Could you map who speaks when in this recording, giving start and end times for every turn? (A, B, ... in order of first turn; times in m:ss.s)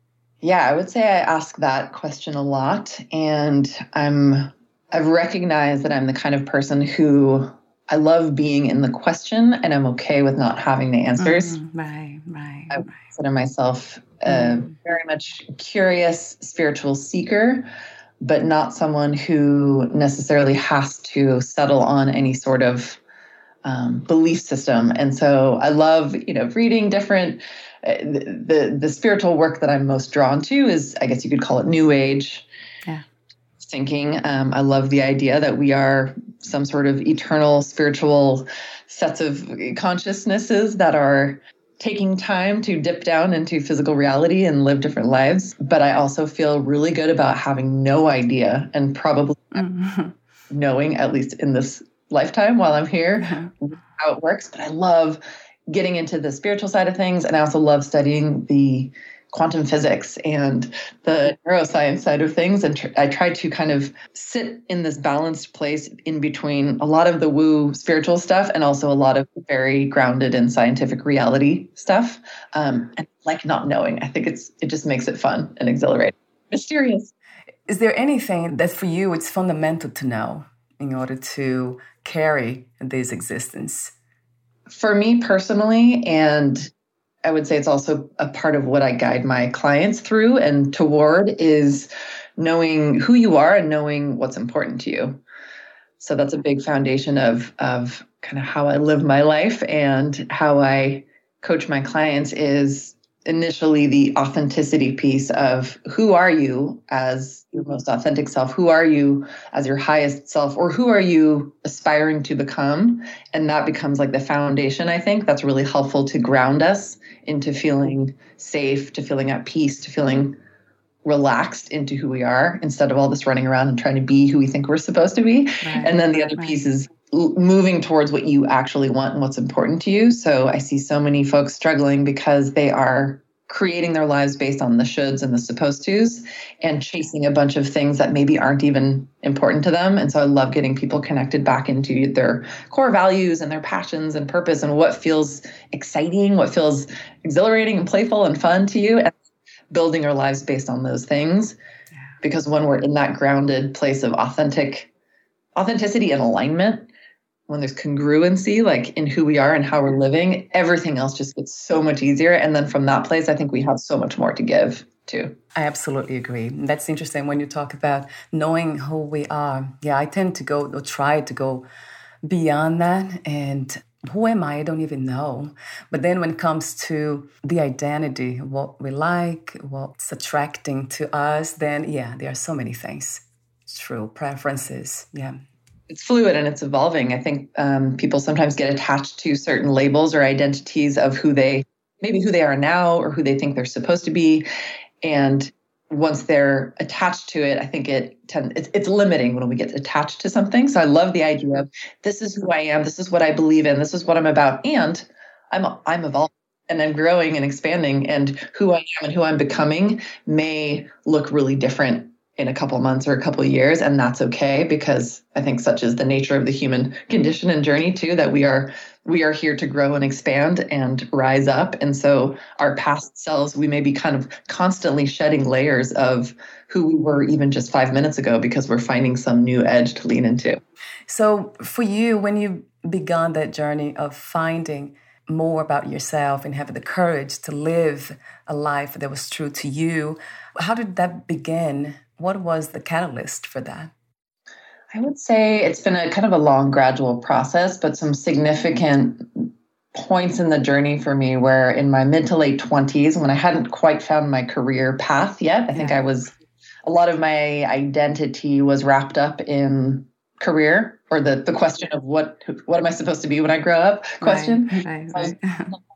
0:00.4-0:11.6 A
0:11.2-0:13.0 B
0:12.7-0:17.7 A
0:14.3-0:14.7 B
0:18.2-0:23.0 A
0:23.6-0:32.5 A
0:33.6-0:49.6 A
0:49.6-0:50.1 B
0:50.5-1:17.1 A
0:53.2-0:53.5 B
1:17.7-1:23.9 B
1:24.7-1:26.7 A
1:27.2-1:35.2 A
1:36.0-2:00.4 A
2:01.0-2:29.2 A
2:05.6-2:06.6 B
2:29.7-2:31.6 A
2:32.2-2:34.9 A
2:35.5-2:36.9 A
2:37.5-2:45.4 A
2:45.5-2:51.7 B
2:52.2-3:05.4 B
3:05.9-3:14.5 A
3:15.0-3:50.6 A
3:51.1-4:03.9 B
4:04.9-4:16.3 A
4:16.8-4:25.8 A
4:24.2-4:25.8 B